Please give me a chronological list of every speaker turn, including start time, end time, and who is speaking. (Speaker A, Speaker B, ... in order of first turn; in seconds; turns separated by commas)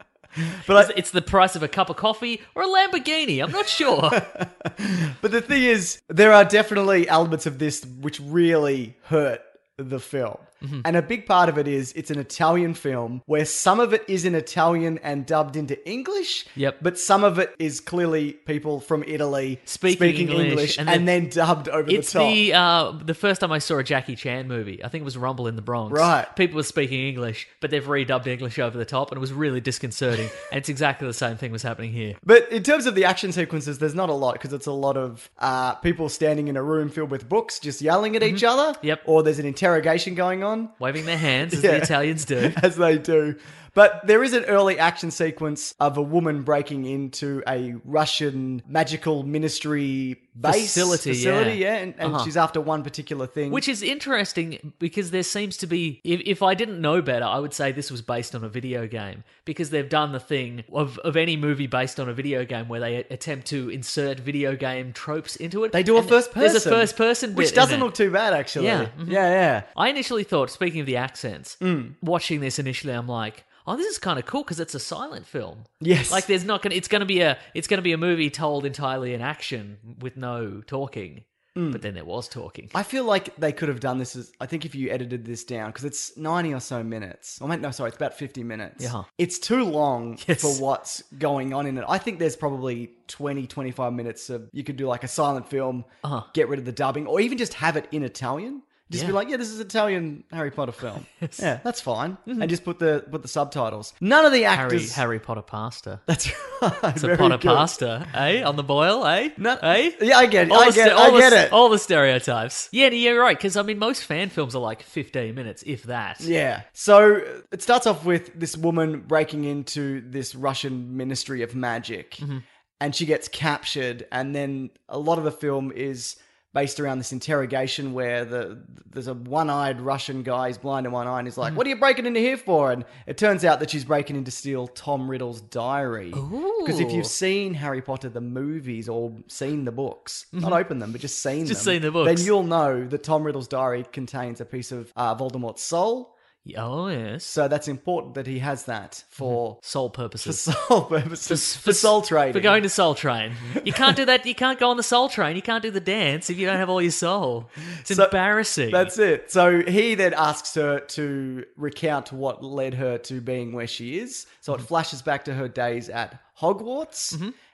Speaker A: 0.4-0.9, Speaker B: 0.7-4.2, Speaker A: 4.1-22.4, Speaker B: 19.6-21.1, Speaker B: 21.9-32.1, Speaker A: 25.9-26.3, Speaker A: 32.2-40.8, Speaker B: 38.2-39.0, Speaker B: 40.8-42.6, Speaker A: 41.4-53.6, Speaker B: 50.4-52.3, Speaker B: 53.5-68.0, Speaker A: 65.7-69.7, Speaker B: 68.5-82.7, Speaker A: 71.6-72.0, Speaker A: 75.8-76.3, Speaker A: 81.5-81.8, Speaker A: 82.7-105.0, Speaker B: 88.8-89.0, Speaker B: 90.2-90.6, Speaker B: 96.0-96.3, Speaker B: 98.9-99.2, Speaker B: 101.1-101.5, Speaker B: 104.5-106.0, Speaker A: 106.1-107.7, Speaker B: 107.0-116.3, Speaker A: 109.3-111.6, Speaker A: 116.2-122.2, Speaker A: 122.8-146.1, Speaker B: 136.1-137.1, Speaker B: 140.3-140.6, Speaker B: 141.4-142.3, Speaker B: 146.4-147.3, Speaker A: 147.2-149.6, Speaker B: 149.2-150.4, Speaker A: 150.2-152.6, Speaker B: 151.2-158.9, Speaker A: 153.6-153.9, Speaker A: 157.8-167.2